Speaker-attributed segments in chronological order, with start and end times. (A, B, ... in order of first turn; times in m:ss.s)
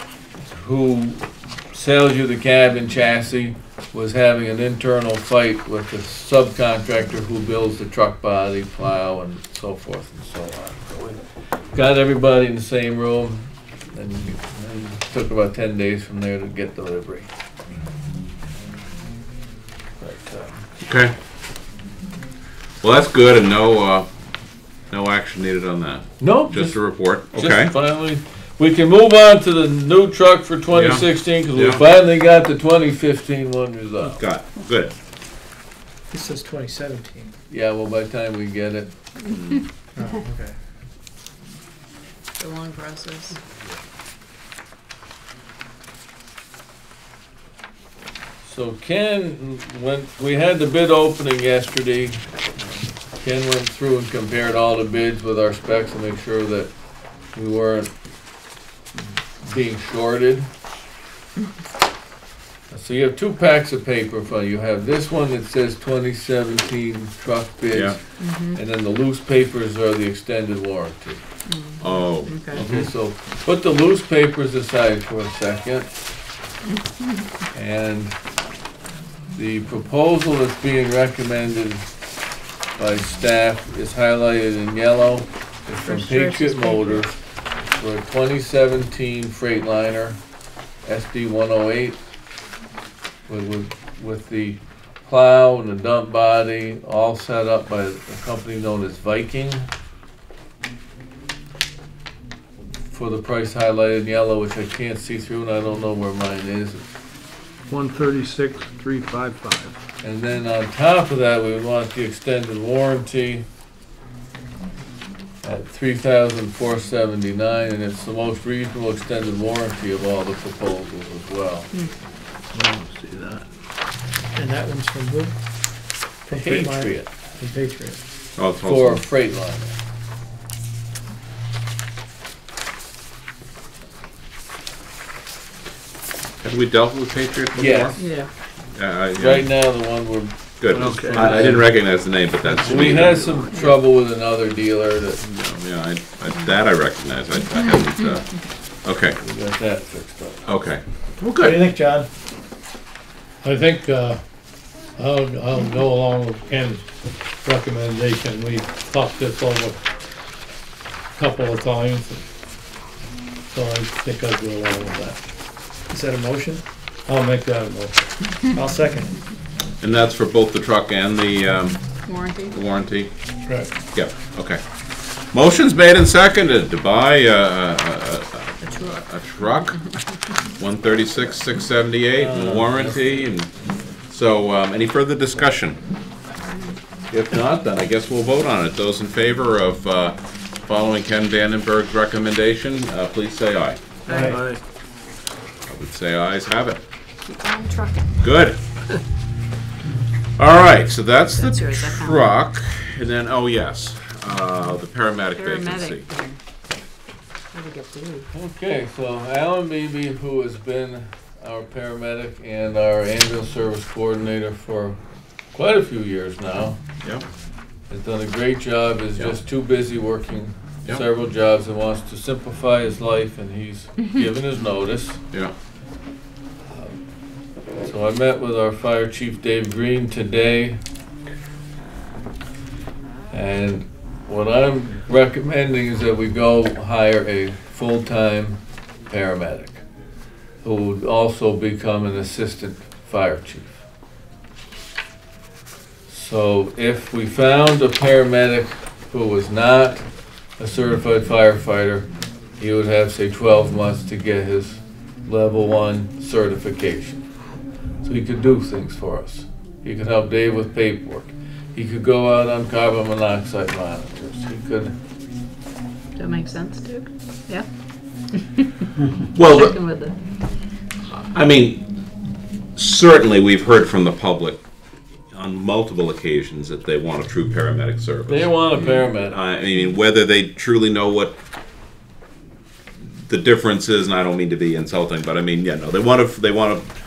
0:00.4-0:11.2 A
0:11.7-0:17.3 A
0:20.0-0:20.6 A
0:20.8-0:21.1 B
0:22.8-0:24.1 B
0:24.9-0:27.7 B
0:26.2-0:34.2 A
0:30.7-0:31.8 B
0:34.0-0:34.9 B
0:36.1-0:37.3 C
0:37.5-0:38.9 A
0:40.0-0:40.5 C
0:42.4-0:43.4 D
0:48.4-0:52.2 A
0:53.2-0:56.7 A
0:57.3-0:57.9 A
0:59.4-1:00.5 A
1:02.7-1:08.0 A
1:07.7-1:08.0 B
1:08.2-1:08.6 D
1:08.5-1:11.2 A
1:11.4-1:12.6 D
1:11.8-1:12.9 B
1:12.5-1:15.9 A
1:16.8-1:17.2 D
1:17.5-1:18.1 A
1:19.3-1:21.9 A
1:22.8-1:30.2 A
1:25.8-1:27.0 D
1:30.8-1:32.0 A
1:33.3-1:39.7 A
1:42.9-1:46.9 A
1:47.7-1:49.8 E
1:50.0-1:53.4 A
1:55.4-2:01.7 A
2:02.5-2:03.4 E
2:04.3-2:05.4 C
2:06.2-2:08.0 C
2:06.3-2:07.1 A
2:08.4-2:09.0 B
2:08.6-2:09.8 A
2:16.4-2:18.0 B
2:17.5-2:18.0 A
2:18.0-2:18.3 D
2:18.7-2:19.5 B
2:19.1-2:20.3 A
2:20.6-2:23.2 B
2:20.7-2:21.6 E
2:21.1-2:21.6 A
2:22.6-2:25.2 A
2:22.6-2:23.5 E
2:25.2-2:29.2 B
2:29.2-2:30.4 A
2:30.4-2:31.7 B
2:31.4-2:32.1 C
2:33.4-2:34.2 F
2:35.0-2:36.9 F
2:37.4-2:39.8 F
2:41.1-2:42.2 F
2:43.5-2:45.2 F
2:45.9-2:46.6 C
2:47.1-2:48.0 F
2:48.5-2:49.2 C
2:49.8-2:52.0 B
2:52.0-2:52.6 D
2:52.5-2:53.1 B
2:53.9-2:54.6 B
2:55.3-2:59.9 B
2:58.6-2:59.1 D
3:00.6-3:03.5 B
3:02.1-3:03.3 A
3:04.1-3:05.8 B
3:06.4-3:06.7 D
3:07.1-3:13.8 B
3:14.0-3:14.4 D
3:14.1-3:14.4 C
3:14.1-3:14.6 E
3:15.7-3:16.8 B
3:17.2-3:18.2 D
3:18.2-3:18.6 B
3:20.4-3:26.1 B
3:21.3-3:22.3 D
3:25.4-3:26.4 D
3:27.5-3:28.3 D
3:28.3-3:35.0 A
3:35.5-3:36.8 A
3:37.9-3:45.2 A
3:46.7-3:47.0 A
3:47.8-3:50.8 A
3:53.3-3:59.8 A
4:00.6-4:03.8 A
4:06.1-4:10.0 A
4:10.6-4:12.1 A
4:12.6-4:17.2 A
4:18.0-4:24.9 A
4:26.1-4:27.6 D
4:29.3-4:29.8 B
4:29.4-4:30.1 D
4:31.1-4:31.8 B
4:32.8-4:34.6 B
4:35.3-4:41.4 B
4:38.3-4:39.4 A
4:43.1-4:46.9 B